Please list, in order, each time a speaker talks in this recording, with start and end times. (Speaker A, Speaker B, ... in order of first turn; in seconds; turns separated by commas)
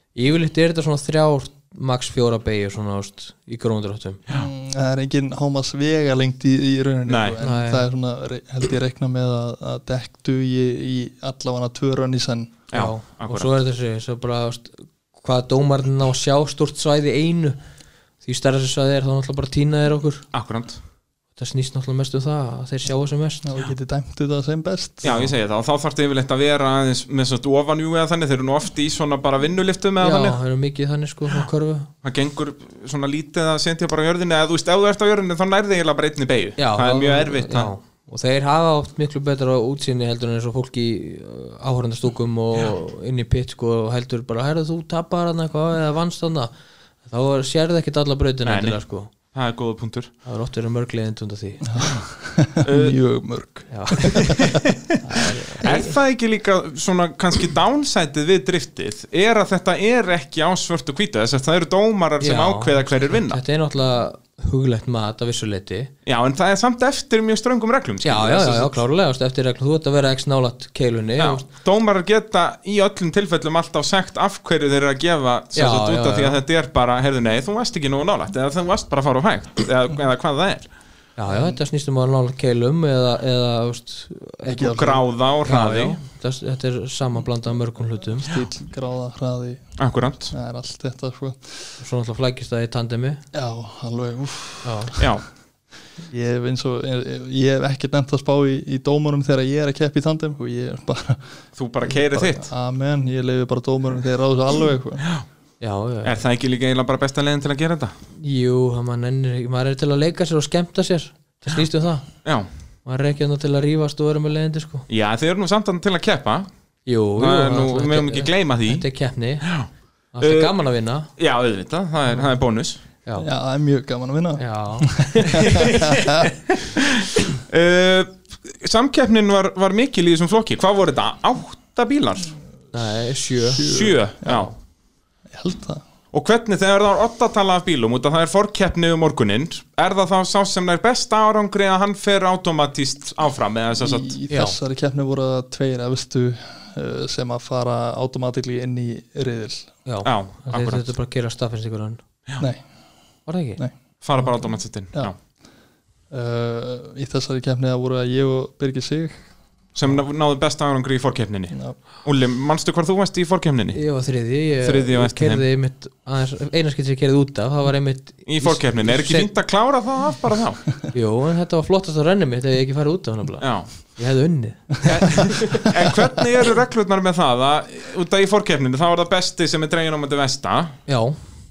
Speaker A: 0.1-4.2, Speaker B: 4.3-12.6, Speaker C: 7.1-7.4, Speaker A: 7.4-7.8, Speaker C: 12.7-13.5, Speaker A: 12.7-17.6, Speaker A: 18.2-20.3, Speaker C: 20.3-20.8, Speaker A: 21.4-23.4, Speaker B: 23.4-25.3, Speaker C: 25.0-30.4, Speaker A: 30.0-31.9, Speaker C: 32.0-37.7, Speaker A: 36.6-46.5, Speaker A: 47.0-49.1, Speaker C: 48.5-50.1, Speaker A: 50.3-51.7, Speaker B: 51.7-54.6, Speaker C: 52.6-53.0, Speaker A: 53.7-54.4, Speaker C: 54.2-55.0, Speaker A: 55.0-56.0, Speaker C: 55.6-63.4, Speaker A: 62.2-65.9, Speaker C: 66.0-68.8, Speaker A: 68.0-71.5, Speaker C: 71.2-80.7, Speaker A: 75.5-76.4, Speaker A: 81.2-84.9, Speaker B: 81.3-81.6, Speaker B: 84.5-85.0, Speaker C: 84.6-86.0, Speaker A: 85.5-88.3, Speaker B: 88.2-89.6, Speaker C: 89.8-90.3, Speaker B: 90.3-91.6, Speaker A: 91.8-93.2, Speaker B: 93.3-95.1, Speaker A: 94.6-95.0, Speaker C: 95.0-95.2, Speaker B: 96.0-105.0, Speaker C: 101.6-102.5, Speaker A: 105.6-106.2, Speaker C: 106.0-107.9, Speaker A: 108.2-112.1, Speaker A: 112.8-114.9, Speaker C: 114.9-116.5, Speaker A: 116.9-119.5, Speaker C: 117.2-118.9, Speaker C: 119.4-119.7, Speaker A: 120.1-121.1, Speaker C: 120.2-120.5, Speaker C: 121.2-122.8, Speaker B: 123.2-126.3, Speaker A: 124.4-125.8, Speaker C: 125.5-132.3, Speaker A: 132.7-133.7, Speaker B: 133.4-134.5, Speaker C: 133.6-134.5, Speaker B: 135.3-135.8, Speaker C: 136.1-144.2, Speaker B: 143.8-149.7, Speaker A: 144.3-144.6, Speaker A: 149.9-152.0, Speaker C: 150.0-150.9, Speaker A: 153.3-153.6, Speaker C: 154.0-155.2, Speaker B: 156.1-159.2, Speaker C: 159.8-163.8, Speaker B: 161.5-161.8, Speaker A: 163.7-169.3, Speaker C: 164.6-165.4, Speaker C: 168.3-170.7, Speaker A: 170.9-175.7, Speaker C: 173.4-173.7, Speaker C: 174.8-180.8, Speaker A: 180.9-181.2